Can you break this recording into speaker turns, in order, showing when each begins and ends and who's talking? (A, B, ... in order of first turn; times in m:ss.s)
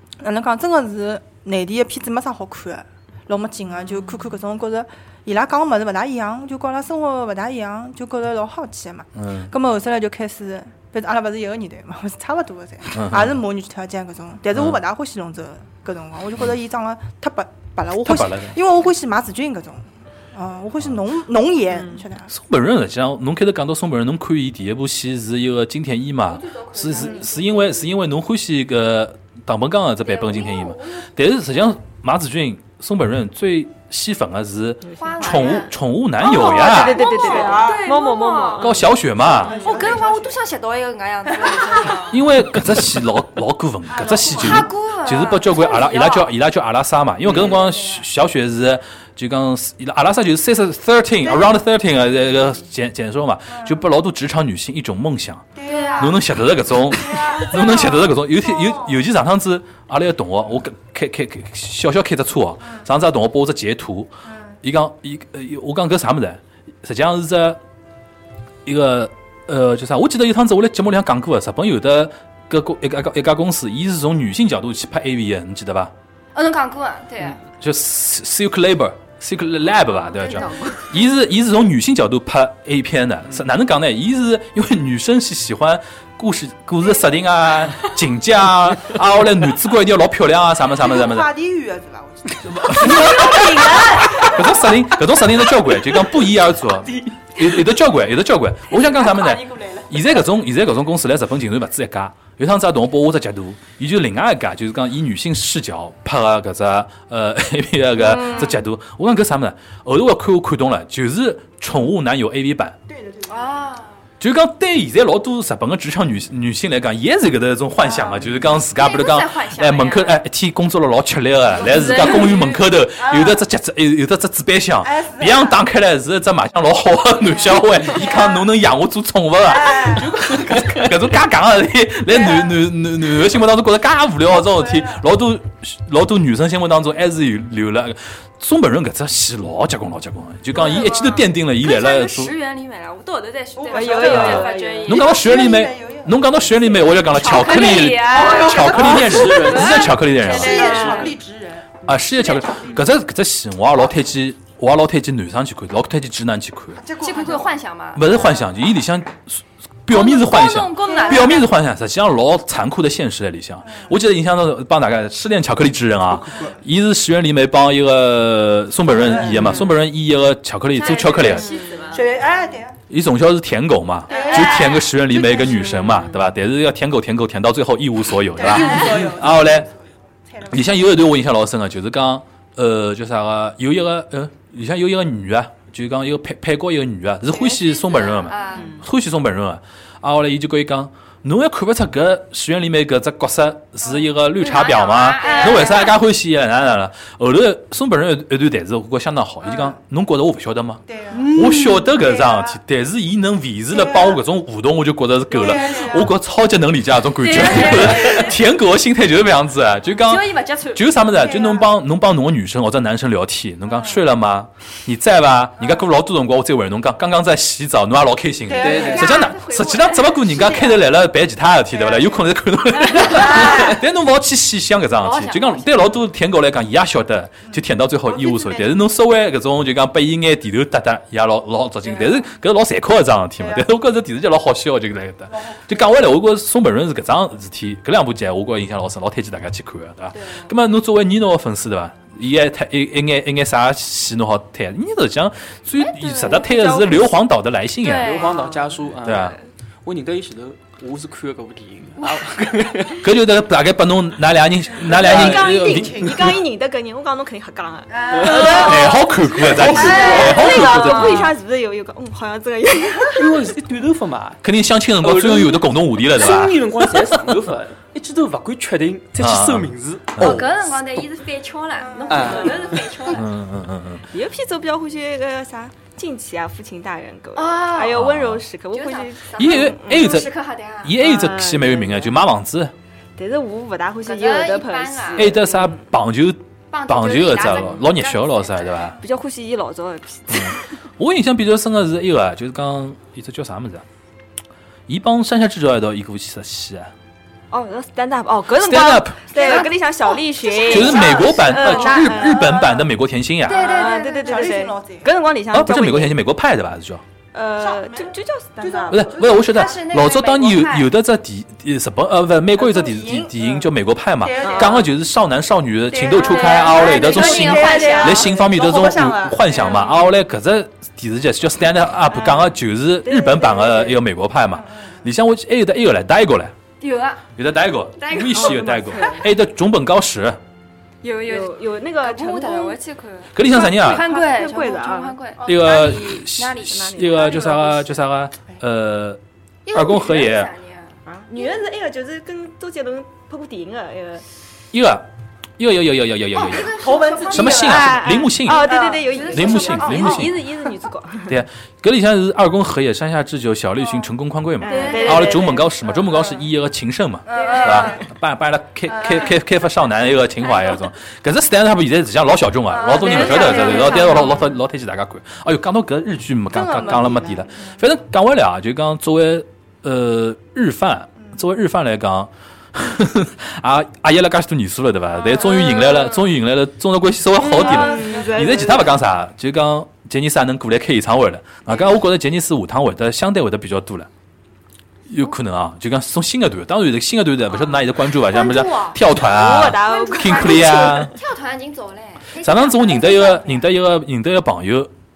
0:00.2-0:22.3 A
0:09.2-0:09.5 B
0:12.9-0:13.3 B
0:14.5-0:14.8 B
0:18.0-0:18.6 B
0:21.8-0:22.1 C
0:22.3-0:37.0 B
0:26.3-0:27.9 D
0:30.0-0:31.1 D
0:34.8-0:35.6 C
0:35.0-0:42.2 D
0:36.3-0:38.9 C
0:36.8-0:37.9 A
0:38.6-0:39.5 B
0:39.3-0:40.3 A
0:39.5-0:39.8 C
0:41.5-0:41.8 A
0:42.1-1:04.1 B
0:43.9-0:44.6 A
0:44.0-0:46.3 D
0:47.5-0:48.0 A
0:53.5-0:53.8 A
0:55.6-0:56.2 A
0:55.6-0:56.2 D
0:57.0-0:59.0 A
1:04.3-1:04.6 A
1:04.6-1:07.6 B
1:08.6-1:15.9 B
1:16.3-1:17.4 D
1:17.6-1:31.3 B
1:20.1-1:20.9 D
1:30.8-1:33.3 A
1:32.5-1:52.8 B
1:33.1-1:34.2 D
1:39.0-1:39.7 D
1:48.0-1:48.6 D
1:52.9-1:53.7 A
1:53.3-1:54.0 D
1:54.2-2:22.4 B
1:57.8-1:58.3 A
1:58.7-2:00.2 D
2:01.6-2:02.6 D
2:03.0-2:03.4 A
2:04.8-2:05.6 A
2:07.9-2:08.4 A
2:09.4-2:10.1 A
2:10.2-2:10.7 E
2:14.5-2:15.0 A
2:20.5-2:25.2 D
2:23.6-2:24.3 A
2:23.7-2:25.0 C
2:24.1-2:30.7 B
2:24.8-2:27.1 A
2:27.1-2:31.2 D
2:28.0-2:28.9 A
2:29.1-2:30.2 E
2:30.3-2:32.8 A
2:30.6-2:31.1 C
2:31.8-2:36.8 B
2:36.8-2:37.6 A
2:37.0-2:38.0 D
2:38.0-2:51.5 B
2:39.9-2:41.6 D
2:40.8-2:41.4 A
2:48.9-2:49.5 A
2:49.3-2:49.8 C
2:50.7-2:52.1 D
2:51.2-2:52.0 C
2:51.9-2:52.8 A
2:52.9-2:59.7 B
2:54.1-2:55.5 D
2:54.1-2:54.7 A
2:55.5-2:55.8 A
2:55.9-2:56.1 C
2:58.3-3:01.0 A
2:58.6-2:59.0 D
3:00.5-4:08.1 B
3:07.3-3:08.8 D
3:08.5-3:08.8 C
3:14.4-3:16.0 D
3:15.2-3:15.6 A
3:20.9-3:21.4 A
3:21.1-3:21.9 E
3:22.0-3:22.3 A
3:23.7-3:24.2 A
3:25.3-3:26.1 A
3:27.2-3:28.4 D
3:29.9-3:31.7 D
3:33.7-3:34.0 A
3:38.5-3:39.2 A
3:38.6-3:39.1 E
3:38.6-3:40.6 D
3:40.3-3:41.1 A
3:41.7-3:42.3 A
3:42.9-3:43.8 D
3:45.0-3:46.0 D
3:48.1-3:48.7 D
3:51.8-3:52.3 D
3:53.4-3:53.7 A
3:55.3-3:55.7 A
4:00.1-4:00.5 D
4:05.8-4:07.2 C
4:07.8-4:08.5 D
4:07.9-4:09.3 E
4:08.4-4:09.4 C
4:09.0-4:09.4 B
4:09.8-4:13.1 E
4:12.0-4:12.8 D
4:13.0-4:16.0 B
4:14.8-4:15.5 E
4:14.9-4:19.0 C
4:15.7-4:16.0 A
4:17.9-4:19.0 A
4:18.1-4:18.7 E
4:18.7-4:21.4 B
4:19.4-4:20.8 E
4:19.6-4:21.0 D
4:19.6-4:20.5 A
4:19.8-4:23.4 C
4:23.1-4:24.4 E
4:24.4-4:27.3 B
4:25.0-4:30.6 E
4:29.2-4:30.4 B
4:30.2-4:33.3 D
4:31.9-4:32.2 A
4:32.1-4:33.0 E
4:33.1-4:34.1 B
4:34.1-4:40.2 C
4:37.4-4:38.0 D
4:37.9-4:38.5 B
4:38.7-4:41.0 D
4:39.4-4:40.3 B
4:40.8-4:42.7 B
4:41.0-4:42.3 C
4:43.2-4:45.9 C
4:44.0-4:45.4 D
4:45.2-4:49.0 B
4:46.7-4:48.9 D
4:49.0-4:50.8 C
4:50.3-4:53.8 B
4:54.9-4:56.9 B
4:57.5-5:02.8 C
4:58.6-4:59.4 B
4:59.3-5:02.2 D
5:00.7-5:01.4 A
5:00.7-5:03.7 B
5:03.4-5:04.6 D
5:03.5-5:05.1 A
5:03.6-5:06.2 C
5:05.5-5:07.0 B
5:07.3-5:09.1 C
5:07.6-5:09.7 A
5:08.9-5:26.5 B
5:09.1-5:11.0 D
5:12.5-5:14.7 A
5:14.4-5:14.9 C
5:15.9-5:19.8 A
5:16.1-5:18.3 D
5:19.6-5:19.9 D
5:22.1-5:24.0 C
5:24.5-5:25.1 A
5:26.8-5:27.2 D
5:27.4-5:30.4 B
5:28.0-5:29.2 D
5:28.3-5:29.4 C
5:31.0-5:37.2 D
5:31.2-5:32.8 C
5:33.3-5:34.1 B
5:33.4-5:38.0 C
5:35.4-5:39.2 B
5:38.0-5:38.6 A
5:39.7-5:41.6 D
5:39.7-5:40.5 B
5:41.1-5:44.2 C
5:44.7-5:45.1 B
5:45.6-5:48.7 B
5:46.3-5:48.1 D
5:46.7-5:50.3 A
5:47.4-5:51.4 C
5:49.1-5:50.2 D
5:49.3-5:50.4 B
5:51.3-6:24.1 B
5:54.6-5:55.7 C
5:54.7-5:55.6 D
5:57.3-5:58.0 A
5:57.3-5:58.0 D
5:57.4-5:58.0 C
5:58.9-5:59.4 A
6:00.4-6:00.8 D
6:02.7-6:04.5 D
6:03.1-6:04.4 C
6:06.5-6:07.5 D
6:06.9-6:07.7 A
6:15.1-6:16.4 D
6:17.3-6:19.0 C
6:17.5-6:18.9 A
6:21.7-6:22.0 D
6:25.1-6:31.2 B
6:27.5-6:29.0 D
6:29.1-6:31.2 C
6:29.7-6:33.2 D
6:32.3-6:33.8 A
6:32.4-6:34.9 B